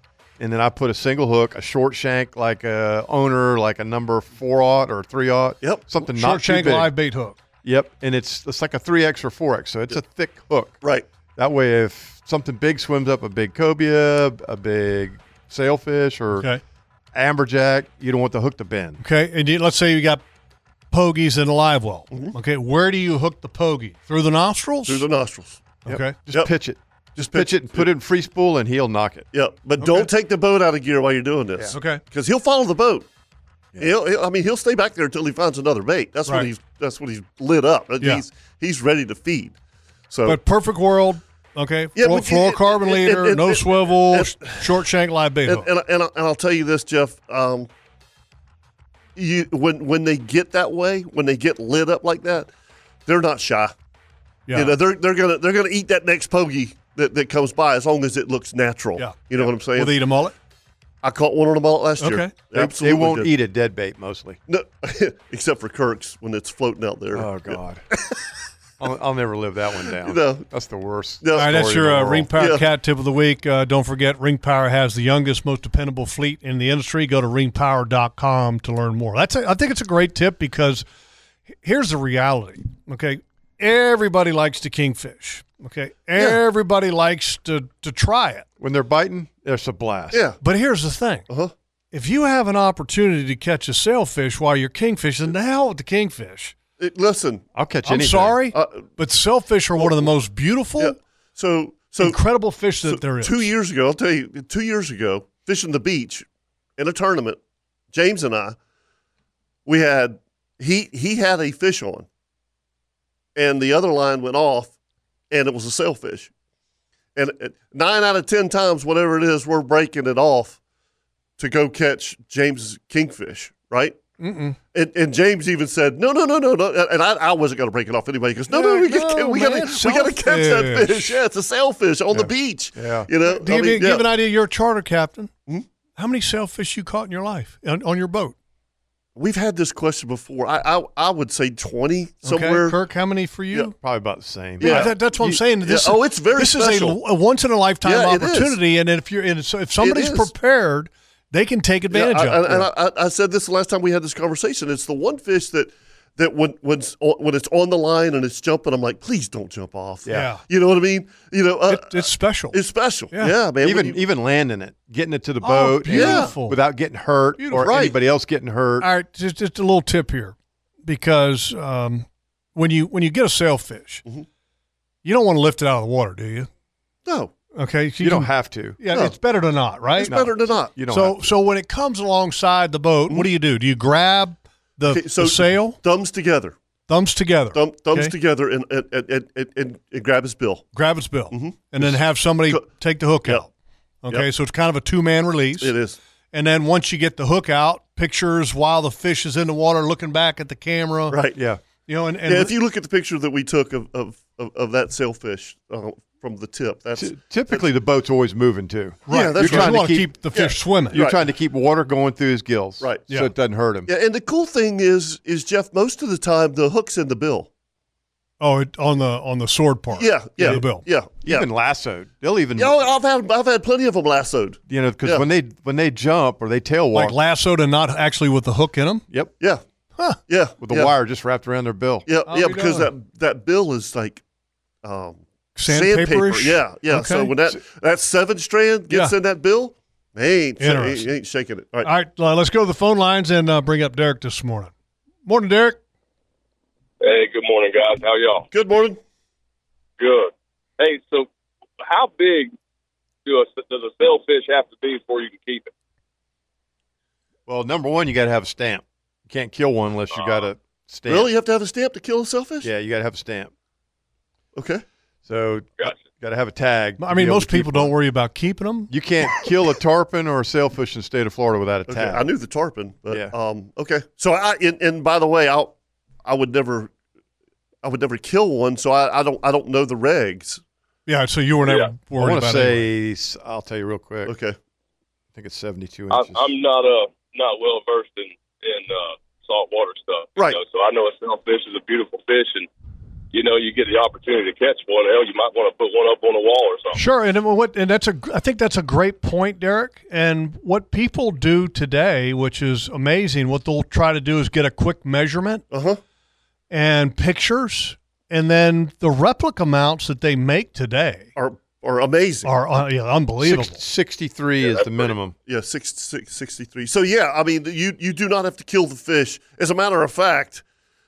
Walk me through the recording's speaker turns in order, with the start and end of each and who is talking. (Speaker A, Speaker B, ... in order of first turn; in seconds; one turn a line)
Speaker A: 0.4-6.9
Speaker B: 5.6-6.0
Speaker C: 6.1-7.4
Speaker A: 7.6-10.8
Speaker A: 11.3-16.5
Speaker A: 17.1-19.0
Speaker C: 19.0-20.2
Speaker C: 20.9-25.0
Speaker B: 24.9-25.7
Speaker C: 25.8-26.2
Speaker A: 25.9-29.3
Speaker B: 27.2-27.9
Speaker B: 29.3-33.1
Speaker C: 29.8-30.1
Speaker C: 31.7-32.0
Speaker B: 33.8-39.5
Speaker B: 40.1-40.4
Speaker C: 40.2-45.7
Speaker B: 42.0-44.8
Speaker B: 45.5-47.7
Speaker B: 49.1-52.5
Speaker B: 53.0-53.7
Speaker C: 54.5-54.8
Speaker B: 54.5-59.9
Speaker C: 59.0-60.3
Speaker B: 61.0-63.3
Speaker C: 62.0-62.3
Speaker A: 62.5-64.4
Speaker B: 64.5-68.3
Speaker A: 67.1-67.8
Speaker A: 68.8-72.3
Speaker B: 69.9-70.5
Speaker B: 71.2-71.7
Speaker C: 71.3-80.8
Speaker B: 72.3-72.7
Speaker C: 81.6-88.5
Speaker A: 88.6-90.2
Speaker B: 90.1-90.4
Speaker C: 90.4-91.2
Speaker C: 91.9-96.5
Speaker B: 96.8-97.5
Speaker A: 97.5-98.4
Speaker C: 97.8-101.0
Speaker B: 98.5-98.9
Speaker B: 99.8-100.1
Speaker B: 100.8-102.2
Speaker C: 102.0-103.5
Speaker B: 102.8-106.2
Speaker B: 106.8-107.4
Speaker B: 107.9-108.5
Speaker B: 109.7-112.1
Speaker B: 113.3-114.7
Speaker B: 115.3-116.3
Speaker B: 117.2-120.6
Speaker B: 121.4-124.0
Speaker C: 124.2-124.6
Speaker B: 124.7-134.1
Speaker C: 128.5-131.2
Speaker A: 132.1-133.1
Speaker C: 133.2-135.3
Speaker C: 136.0-138.3
Speaker B: 139.2-142.8
Speaker C: 142.2-143.7
Speaker A: 143.8-145.4
Speaker B: 144.6-144.9
Speaker C: 144.6-152.7
Speaker B: 145.6-147.0
Speaker B: 147.8-148.6
Speaker B: 149.8-150.3
Speaker B: 151.9-164.0
Speaker C: 160.1-160.4
Speaker C: 161.7-162.6
Speaker A: 163.6-168.9
Speaker C: 165.4-166.6
Speaker B: 165.9-166.3
Speaker C: 167.4-167.7
Speaker B: 167.5-167.9
Speaker C: 168.8-174.0
Speaker C: 175.0-176.5
Speaker B: 177.1-177.3
Speaker C: 177.6-180.1
Speaker A: 178.0-178.8
Speaker B: 179.9-180.7
Speaker A: 180.1-181.2
Speaker C: 180.9-185.8
Speaker B: 184.9-186.5
Speaker C: 186.9-188.1
Speaker B: 187.5-190.7
Speaker C: 190.7-193.5
Speaker B: 191.3-192.0
Speaker C: 194.0-195.7
Speaker B: 195.6-196.0
Speaker C: 196.3-201.2
Speaker B: 201.1-201.4
Speaker A: 201.3-201.6
Speaker C: 201.9-202.5
Speaker B: 202.2-207.6
Speaker A: 207.0-210.1
Speaker C: 209.1-211.0
Speaker B: 209.1-211.2
Speaker A: 210.9-213.9
Speaker B: 212.8-213.1
Speaker B: 213.8-217.5
Speaker C: 218.4-220.8
Speaker B: 219.9-221.5
Speaker A: 221.2-222.8
Speaker B: 222.6-225.2
Speaker A: 224.7-227.2
Speaker C: 226.9-229.1
Speaker B: 230.3-230.9
Speaker A: 230.6-232.0
Speaker B: 232.1-234.2
Speaker C: 232.3-232.9
Speaker B: 234.8-241.9
Speaker C: 235.6-237.3
Speaker C: 240.6-241.1
Speaker C: 241.8-244.7
Speaker C: 245.2-245.8
Speaker D: 247.0-248.5
Speaker B: 248.5-249.0
Speaker D: 250.0-251.3
Speaker D: 251.8-252.5
Speaker D: 253.2-255.7
Speaker A: 257.5-261.3
Speaker D: 260.1-260.5
Speaker B: 261.1-262.7
Speaker A: 262.6-263.5
Speaker B: 264.6-264.8
Speaker A: 265.2-267.9
Speaker C: 267.0-268.9
Speaker A: 268.9-272.2
Speaker B: 271.9-275.7
Speaker B: 276.2-276.9
Speaker B: 277.8-280.6
Speaker C: 281.1-282.9
Speaker D: 281.6-281.9
Speaker A: 282.2-284.4
Speaker B: 284.2-284.6
Speaker A: 285.3-286.5
Speaker D: 286.1-292.7
Speaker D: 293.3-297.0
Speaker C: 296.9-305.6
Speaker B: 305.7-306.0
Speaker C: 306.7-311.3
Speaker B: 311.4-312.5
Speaker C: 312.4-313.8
Speaker A: 313.4-315.3
Speaker D: 314.6-315.1
Speaker B: 315.4-320.6